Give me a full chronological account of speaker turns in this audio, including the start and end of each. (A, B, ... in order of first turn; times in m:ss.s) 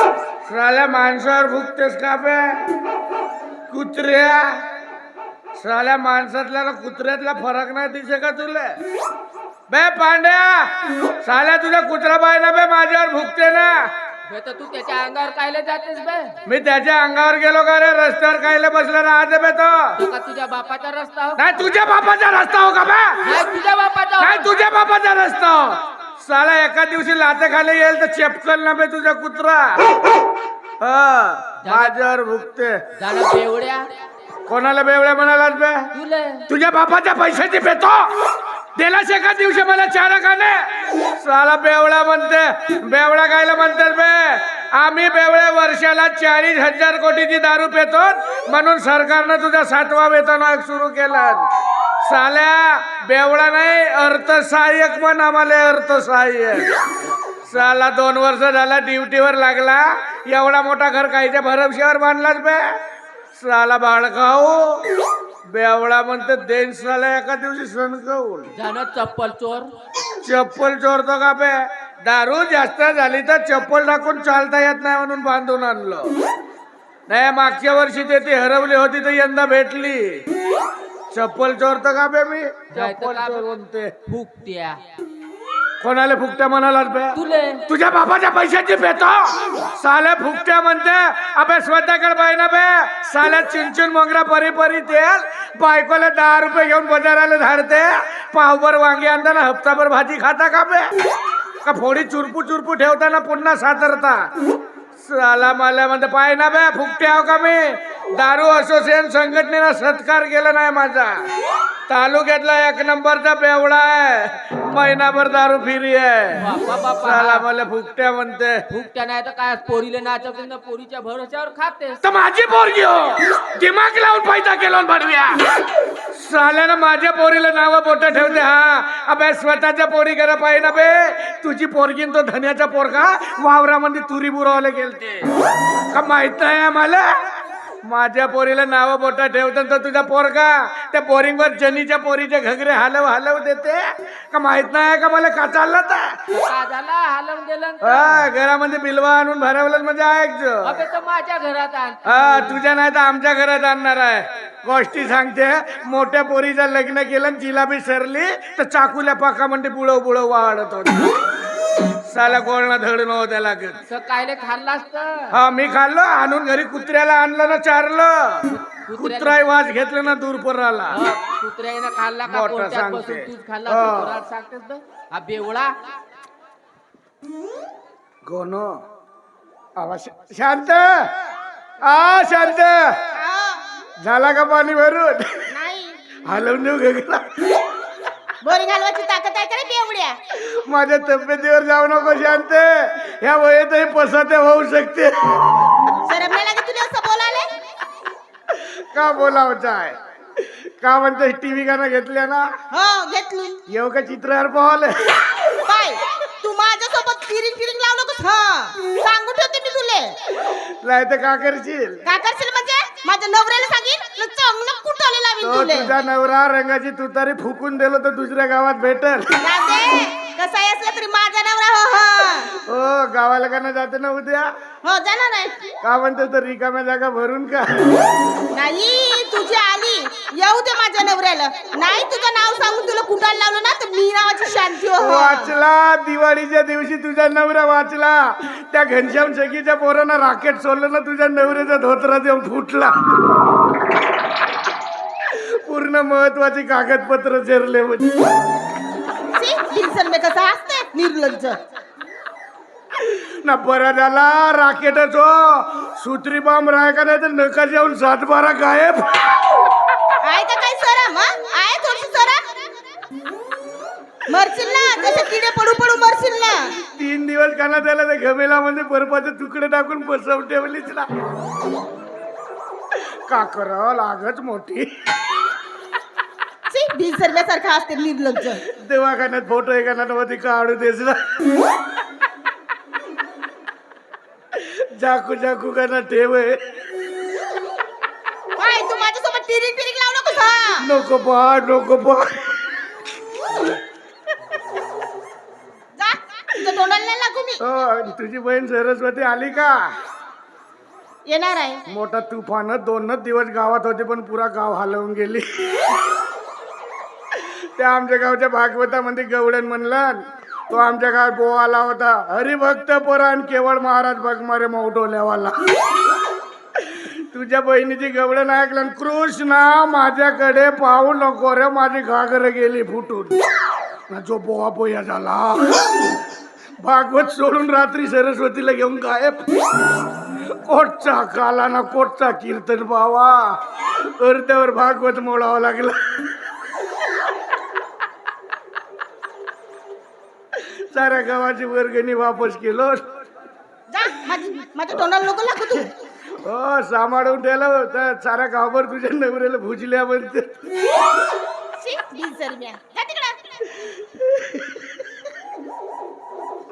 0:00.4-0:02.7 A
0:03.7-0:04.7 A
0:05.6-0:08.8 A
0:09.7-0:13.9 A
0:14.3-0:16.4 B
0:16.5-0:20.0 A
0:20.0-0:21.7 B
0:21.4-0:23.4 A
0:23.2-0:24.5 B
0:24.2-0:30.0 A
0:30.8-0:32.9 A
0:31.6-0:32.0 B
0:33.0-0:33.9 B
0:34.5-0:35.9 A
0:35.9-0:36.5 B
0:36.5-0:51.5 A
0:52.0-0:56.8 A
0:57.4-1:02.8 A
1:03.4-1:08.5 A
1:08.6-1:09.7 B
1:10.2-1:16.1 A
1:17.1-1:20.2 A
1:21.1-1:23.9 A
1:22.7-1:23.5 B
1:24.1-1:24.8 B
1:25.8-1:40.9 A
1:27.2-1:27.7 B
1:41.6-1:44.3 A
1:45.0-1:51.3 A
1:51.9-1:58.6 A
1:56.4-1:57.5 B
1:58.7-2:02.0 B
2:02.0-2:05.5 A
2:06.1-2:15.3 A
2:15.9-2:26.2 A
2:26.3-2:28.3 B
2:27.8-2:30.8 A
2:30.6-2:32.6 B
2:32.1-2:41.2 A
2:42.0-2:43.8 A
2:43.9-2:45.4 B
2:45.3-2:51.0 A
2:48.4-2:49.4 B
2:50.9-2:55.7 B
2:52.3-2:54.2 A
2:58.2-2:58.8 A
2:59.8-3:01.1 A
3:01.8-3:03.1 A
3:03.1-3:03.6 C
3:04.0-3:05.5 A
3:05.5-3:06.0 C
3:06.2-3:07.5 A
3:08.4-3:10.2 C
3:10.4-3:15.6 A
3:16.0-3:17.5 C
3:18.6-3:22.5 A
3:22.7-3:23.6 C
3:23.7-3:25.3 A
3:25.6-3:30.2 C
3:30.5-3:32.0 A
3:32.0-3:35.9 C
3:35.4-3:39.4 A
3:39.4-3:42.5 C
3:42.6-3:44.5 A
3:44.8-3:45.6 C
3:45.8-3:48.0 A
3:48.5-3:55.6 C
3:55.0-4:02.9 A
4:05.3-4:08.2 A
4:09.3-4:11.6 C
4:13.0-4:19.5 A
4:20.2-4:22.6 C
4:24.3-4:26.8 C
4:26.9-4:31.1 A
4:33.3-4:34.9 A
4:36.7-4:38.6 C
4:38.7-4:41.4 A
4:44.5-4:46.6 A
4:48.6-4:50.9 C
4:50.8-4:52.8 A
4:56.0-4:57.6 C
4:57.6-4:59.9 A
5:01.3-5:01.8 C
5:01.9-5:05.9 A
5:07.3-5:15.6 A
5:16.8-5:23.4 A
5:24.1-5:25.9 A
5:26.8-5:29.5 A
5:30.5-5:36.0 A
5:40.6-5:43.1 A
5:43.9-5:45.9 C
5:46.4-5:50.6 A
5:51.8-5:53.6 C
5:54.1-5:54.9 A